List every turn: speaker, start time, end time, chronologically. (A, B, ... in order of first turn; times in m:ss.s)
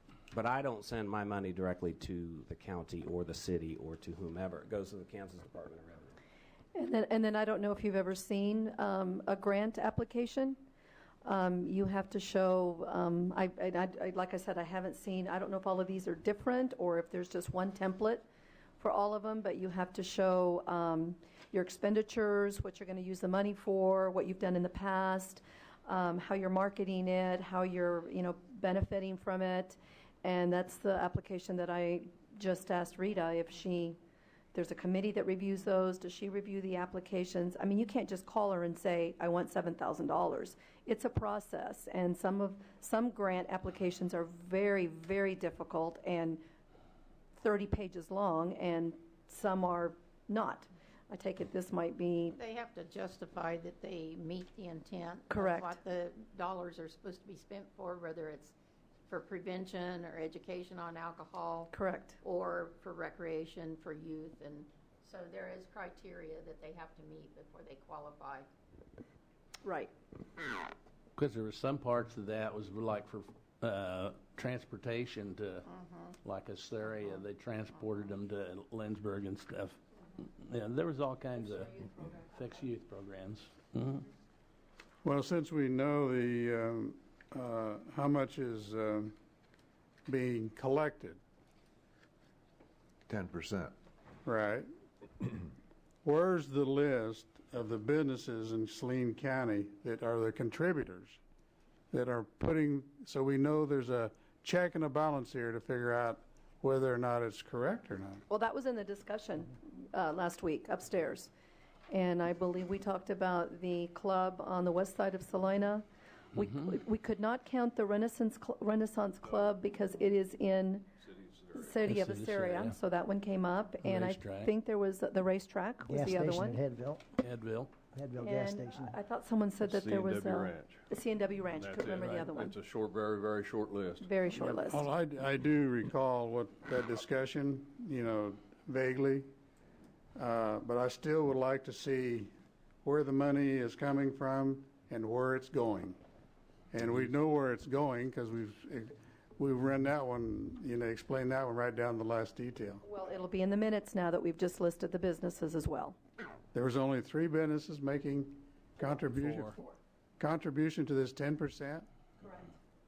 0:00.3-0:06.1 A
0:06.7-0:10.6 B
0:11.2-0:18.2 B
0:18.8-0:34.0 B
0:34.5-0:46.4 B
0:47.4-0:52.4 B
0:52.3-0:58.5 C
0:55.3-0:55.8 B
0:59.1-1:08.5 C
1:01.7-1:02.2 B
1:09.6-1:09.9 B
1:11.2-1:15.7 D
1:15.7-1:16.1 C
1:16.2-1:24.1 D
1:25.0-1:29.1 E
1:30.1-1:31.2 E
1:33.1-1:33.7 F
1:34.2-1:34.7 E
1:36.0-1:41.2 E
1:41.9-1:48.2 E
1:48.3-1:51.3 B
1:51.9-2:00.9 B
2:01.1-2:01.6 F
2:01.5-2:06.5 B
2:01.9-2:02.8 D
2:03.8-2:04.5 D
2:05.8-2:07.0 G
2:07.2-2:07.7 D
2:07.9-2:08.9 G
2:08.2-2:12.5 B
2:09.6-2:10.9 F
2:11.5-2:14.1 F
2:14.0-2:14.8 B
2:14.4-2:19.3 E
2:20.1-2:22.3 E
2:22.8-2:26.0 E
2:26.7-2:32.8 E
2:32.8-2:36.0 B
2:36.5-2:39.6 E
2:39.1-2:39.6 D
2:40.2-2:41.9 E